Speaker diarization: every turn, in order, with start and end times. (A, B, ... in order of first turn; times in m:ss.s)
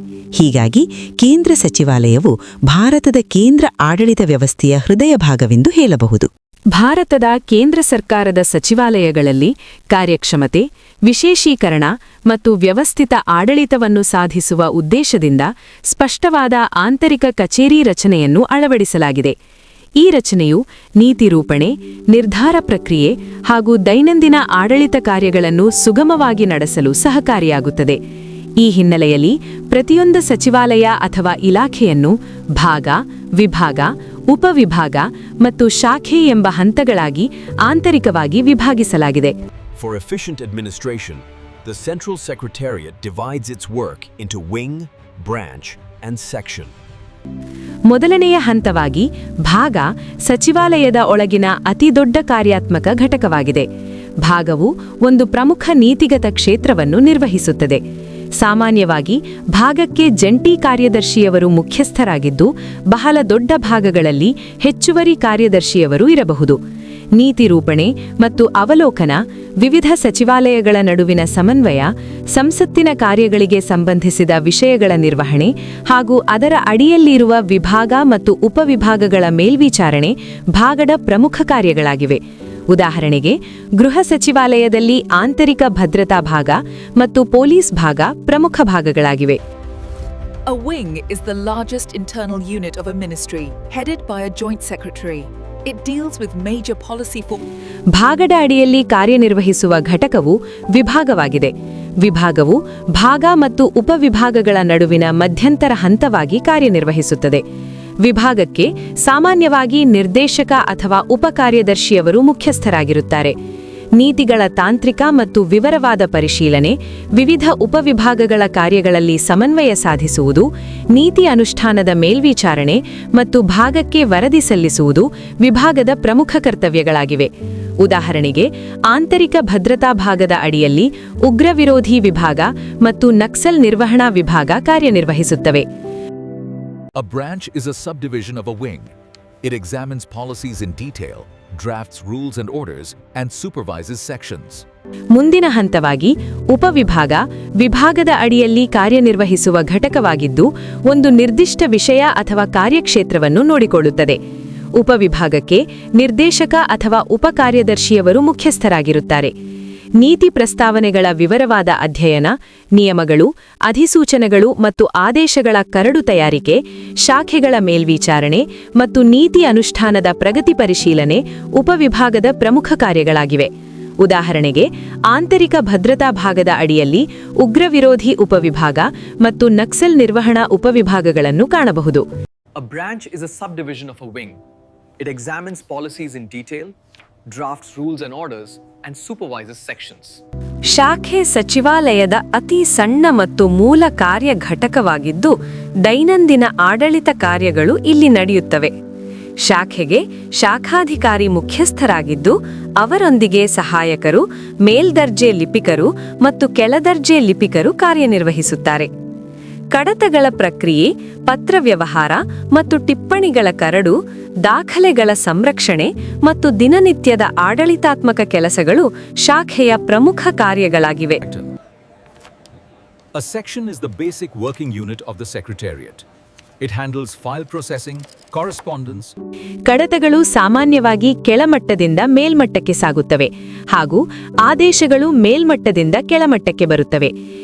0:00.4-0:06.3 A
0:06.7-0:19.3 B
0:20.0-0:28.0 B
0:28.6-0:39.3 B
0:39.8-0:46.7 C
0:47.9-0:53.7 B
0:54.2-0:57.8 B
0:58.4-1:06.6 B
1:07.1-1:22.2 B
1:22.7-1:29.4 B
1:30.4-1:37.4 D
1:37.9-1:47.4 B
1:48.0-1:53.3 B
1:54.0-2:07.3 B
2:07.8-2:15.6 B
2:17.0-2:18.9 E
2:19.4-2:24.6 E
2:25.1-2:34.2 B
2:34.8-2:39.3 B
2:40.0-2:53.5 B
2:54.0-3:02.0 B
3:02.6-3:04.4 F
3:05.0-3:06.7 F
3:07.3-3:10.2 F
3:10.7-3:18.7 B
3:19.4-3:28.9 B
3:29.7-3:41.2 B
3:41.2-3:41.5 E
3:43.1-3:46.0 E
3:46.6-3:49.1 E
3:49.6-3:57.1 B